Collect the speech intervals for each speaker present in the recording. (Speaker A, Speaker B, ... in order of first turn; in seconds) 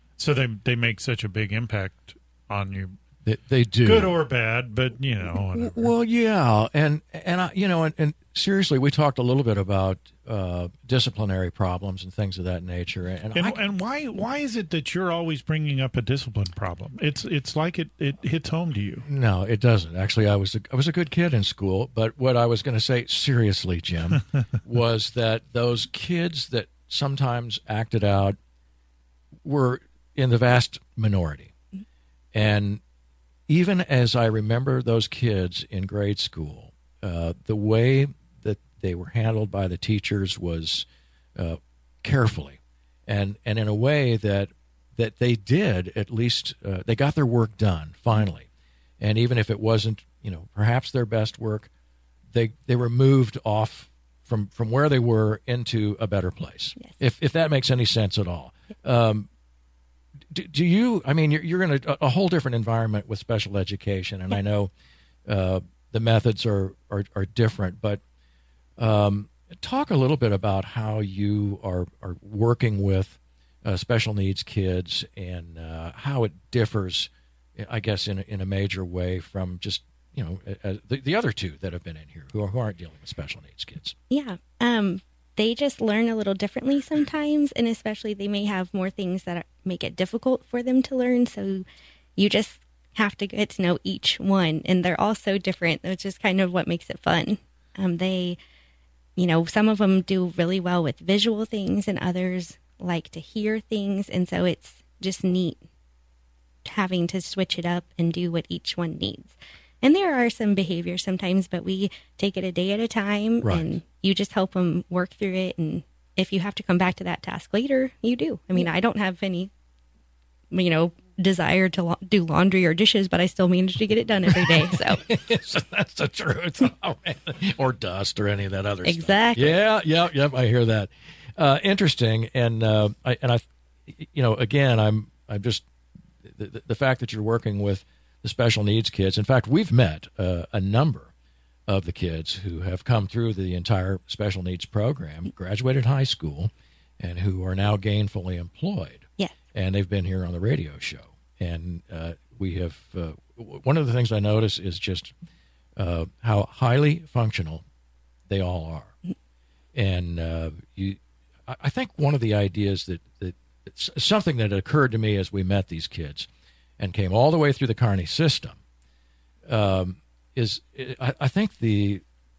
Speaker A: 0.2-3.0, 3.8-5.9, 13.3-19.1
Speaker B: 3.2-4.2, 5.5-13.6, 19.1-28.4, 29.4-31.5, 32.3-32.8, 33.5-48.5, 49.0-51.7, 52.3-59.3, 60.3-64.7, 65.3-68.0, 68.8-84.0, 113.4-113.7, 124.3-135.7, 136.2-141.1, 141.7-155.1, 155.8-157.6, 158.3-158.9, 159.7-166.3, 166.8-168.6, 169.5-172.0
Speaker C: 84.1-91.7, 92.2-98.4, 99.2-105.6, 106.7-119.5, 120.5-125.0, 128.8-129.6